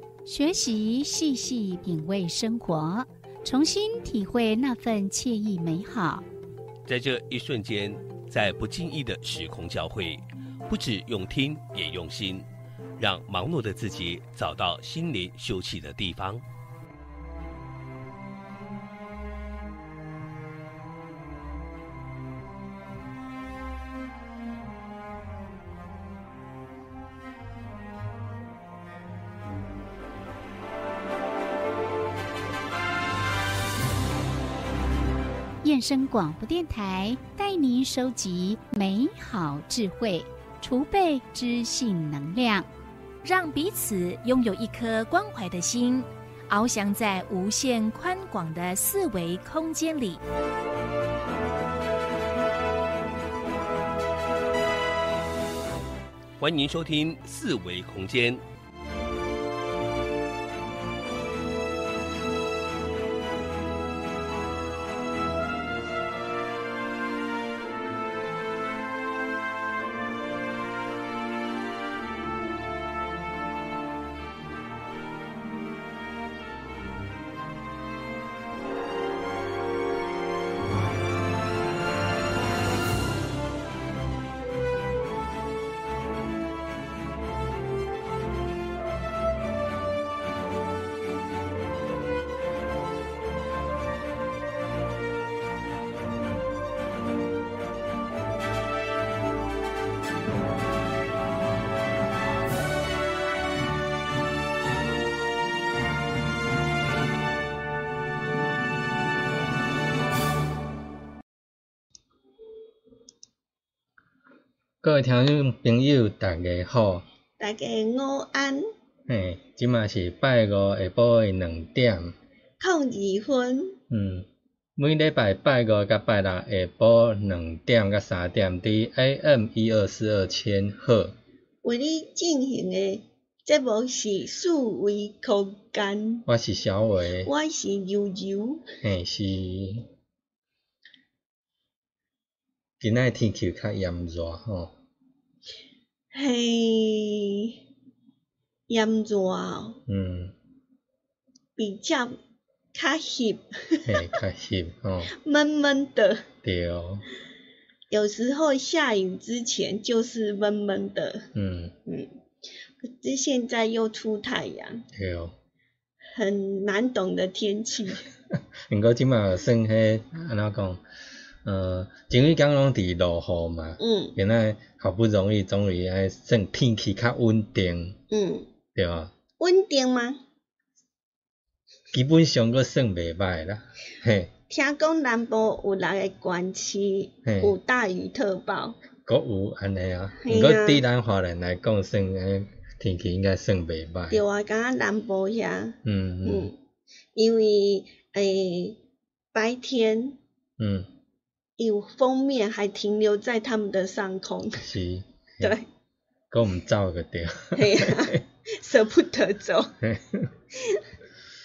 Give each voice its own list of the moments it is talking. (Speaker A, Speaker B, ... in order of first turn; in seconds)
Speaker A: 0.2-6.2, 35.6-42.7
Speaker B: 6.8-12.4, 13.0-16.4, 56.4-58.4
Speaker C: 43.2-50.2
Speaker D: 114.8-117.0, 119.1-122.1, 123.9-131.2, 136.2-137.3, 138.8-139.9, 142.8-144.7, 149.9-150.3, 153.8-155.1, 156.4-157.0, 161.3-161.7, 164.9-165.3, 168.7-170.8, 171.4-178.0, 178.7-179.1, 181.9-184.3, 187.2-187.5, 189.0-194.2, 195.8-196.5, 200.6-200.9, 204.6-205.5, 206.3-208.2, 209.8-210.3
Speaker E: 117.4-118.7, 122.6-123.8, 131.6-136.2, 137.2-138.6, 146.1-147.6, 148.7-149.8, 151.6-152.1, 152.7-154.1, 155.1-156.2, 157.9-161.3, 162.8-164.8, 166.1-168.0, 173.8-174.2, 178.1-178.5, 179.4-180.2, 184.5-188.8, 190.2-190.8, 194.1-196.5, 197.1-198.8, 199.3-200.2, 201.6-204.7, 205.4-205.7, 207.5-209.7, 210.5-210.8